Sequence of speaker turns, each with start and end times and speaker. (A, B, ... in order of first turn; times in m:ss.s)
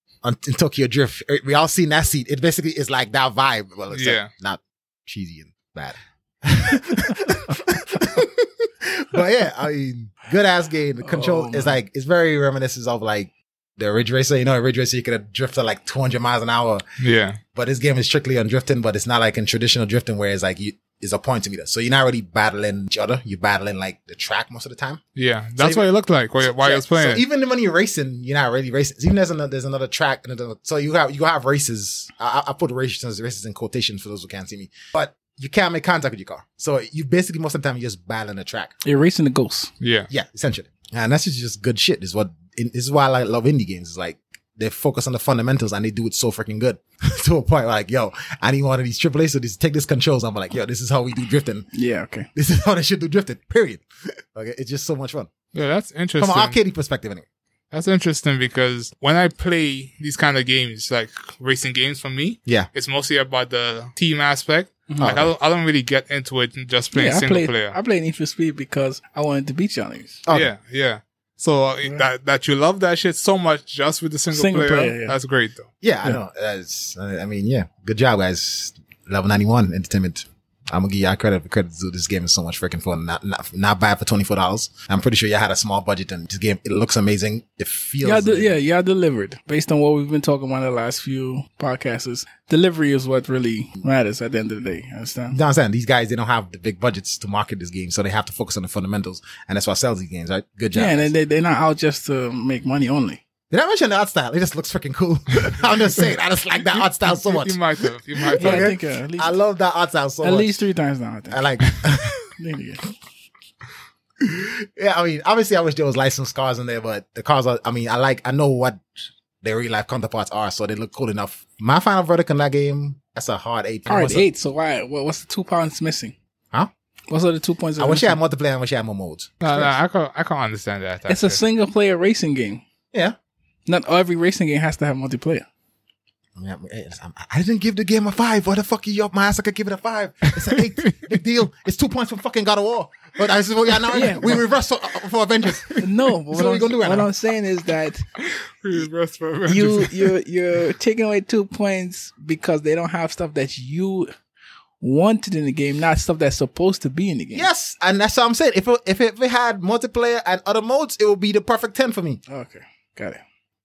0:00.2-0:16.8 A
0:03.9-0:04.3 B
0:11.0-0:11.8 C
0:17.0-0:17.4 B
0:17.5-0:25.0 A
0:25.2-0:27.2 B
0:25.6-0:25.9 A
0:26.4-0:38.7 A
0:38.8-0:39.7 C
0:39.8-0:40.1 B
0:40.1-0:51.7 A
0:51.7-0:52.3 C
0:52.4-0:55.3 A
0:55.5-0:56.6 B
0:56.2-0:57.2 A
0:57.7-1:07.8 B
1:04.9-1:05.3 C
1:06.9-1:10.2 C
1:10.3-1:15.7 B
1:14.3-1:15.2 C
1:15.8-1:28.5 A
1:28.0-1:35.4 C
1:35.3-1:41.1 A
1:40.8-1:43.2 C
1:43.5-1:47.6 A
1:46.5-1:48.8 B
1:48.2-1:50.6 A
1:48.4-1:49.4 C
1:50.2-1:51.4 C
1:51.3-1:52.3 A
1:52.3-1:52.8 C
1:54.2-1:58.8 A
1:59.4-2:04.3 A
2:03.9-2:06.2 C
2:07.1-2:08.2 C
2:07.8-2:09.7 A
2:09.4-2:11.4 B
2:11.1-2:12.6 C
2:13.7-2:15.4 C
2:16.4-2:27.1 A
2:23.9-2:24.4 C
2:25.8-2:28.0 C
2:28.2-2:30.2 B
2:29.5-2:34.1 C
2:34.8-2:37.5 C
2:37.3-2:42.2 A
2:42.3-2:43.2 C